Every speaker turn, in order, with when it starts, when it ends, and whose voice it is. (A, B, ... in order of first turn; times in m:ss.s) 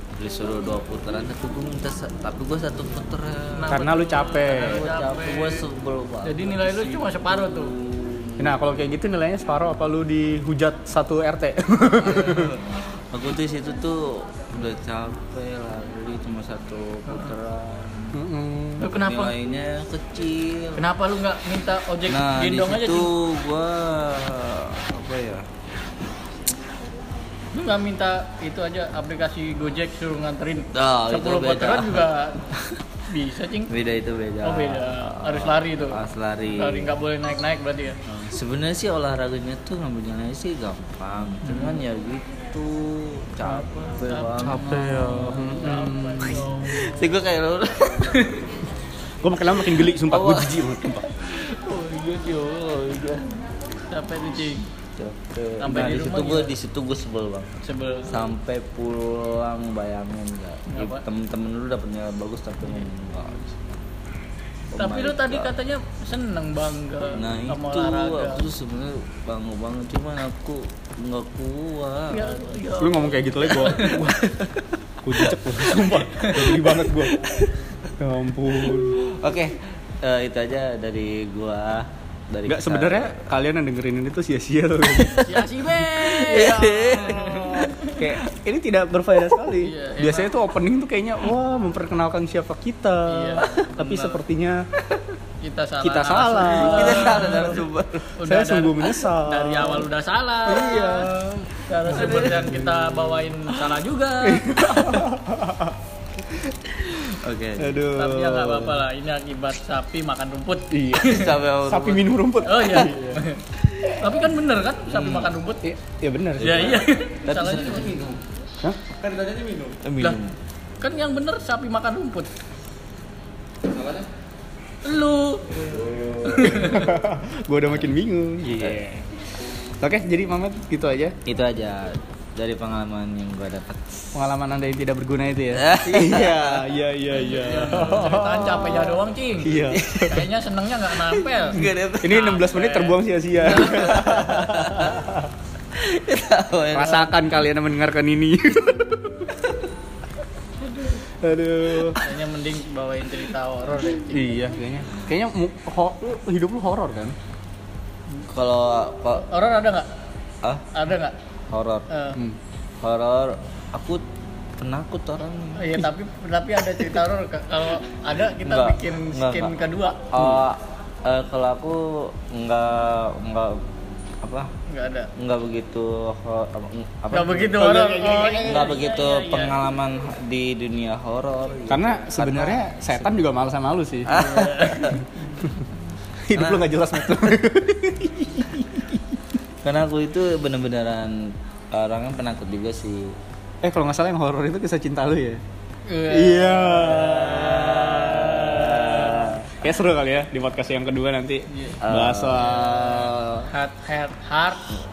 0:00.2-0:03.8 A
0:03.6-0:05.6 B
0:03.7-0:04.8 C
0:04.4-0:08.6 A
0:06.2-0:07.7 B
0:08.4-0:12.5 C
0:12.0-0:18.2 A
0:17.1-0:17.3 B
0:18.1-0:18.9 C
0:18.8-0:19.4 B
0:18.9-0:20.8 A
0:20.8-0:23.1 B
0:22.1-0:25.4 A
0:27.5-0:32.5 B
0:30.7-0:32.0 A
0:33.1-0:33.7 B
0:33.7-0:37.0 A
0:34.4-0:36.0 B
0:36.6-0:38.0 B
0:38.1-0:45.7 A
0:41.4-0:41.8 B
0:43.4-0:44.6 B
0:44.4-0:46.5 C
0:45.2-0:47.1 B
0:46.7-0:48.4 A
0:48.1-0:48.4 B
0:49.2-0:51.1 C
0:49.8-0:53.4 A
0:53.9-0:54.7 B
0:55.0-1:03.8 A
0:55.6-0:56.5 B
0:57.6-0:58.3 B
1:00.7-1:01.0 B
1:04.7-1:05.5 A
1:04.8-1:08.4 B
1:07.2-1:12.6 A
1:12.1-1:14.0 B
1:12.8-1:14.3 C
1:13.7-1:14.5 A
1:15.0-1:17.2 C
1:15.2-1:16.0 A
1:16.7-1:17.5 A
1:18.0-1:19.0 C
1:18.6-1:23.1 A
1:22.5-1:25.4 C
1:25.2-1:28.0 B
1:25.8-1:27.7 A
1:27.7-1:34.6 C
1:29.6-1:30.3 B
1:33.1-1:34.2 B
1:33.4-1:33.7 A
1:35.4-1:37.5 B
1:35.8-1:37.3 C
1:36.4-1:38.2 A
1:38.2-1:44.7 B
1:38.2-1:39.9 C
1:40.5-1:43.3 C
1:41.9-1:42.5 A
1:44.2-1:45.8 C
1:44.8-1:45.1 A
1:46.7-1:47.8 A
1:47.6-1:48.9 C
1:47.9-1:51.3 B
1:50.7-1:53.2 C
1:51.0-1:52.1 A
1:52.4-1:53.4 B
1:54.0-1:55.6 B
1:54.9-1:55.4 A
1:55.6-1:56.8 C
1:56.4-1:58.0 B
1:56.4-1:58.2 A
1:58.6-1:59.0 C
1:59.0-2:00.4 A
2:00.8-2:02.3 B
2:03.8-2:04.1 A
2:04.8-2:05.6 B
2:05.6-2:06.7 A
2:06.2-2:07.0 B
2:06.5-2:09.0 C
2:08.5-2:08.8 A
2:09.8-2:11.2 C
2:11.3-2:14.2 A
2:14.1-2:20.2 C
2:15.5-2:16.7 A
2:17.2-2:24.0 B
2:19.7-2:20.2 A
2:21.0-2:22.2 A
2:22.0-2:25.2 C
2:23.6-2:25.1 A
2:25.8-2:27.4 A
2:26.7-2:29.3 C
2:31.2-2:32.0 C
2:32.0-2:34.2 B
2:34.1-2:37.2 C
2:38.3-2:39.3 A
2:39.2-2:39.9 B
2:40.7-2:41.2 B
2:41.5-2:41.9 A
2:41.9-2:42.2 B
2:42.8-2:44.0 A
2:44.6-2:45.9 A
2:45.6-2:50.1 B
2:48.4-2:49.5 A
2:50.1-2:53.6 A
2:50.2-2:50.4 C
2:54.2-2:54.5 A
2:54.7-2:55.1 B
2:55.2-2:57.7 A
2:57.1-2:59.6 B
2:57.6-2:58.7 C
2:58.4-3:03.2 A
3:01.7-3:04.2 C
3:04.1-3:05.0 A
3:04.1-3:05.0 B
3:06.3-3:09.0 C
3:06.3-3:07.4 A
3:09.6-3:13.1 A
3:13.6-3:15.4 C
3:15.9-3:19.4 B
3:16.1-3:17.3 C
3:16.8-3:19.6 A
3:19.4-3:22.6 C
3:21.5-3:21.8 B
3:21.8-3:23.5 A
3:22.4-3:24.8 B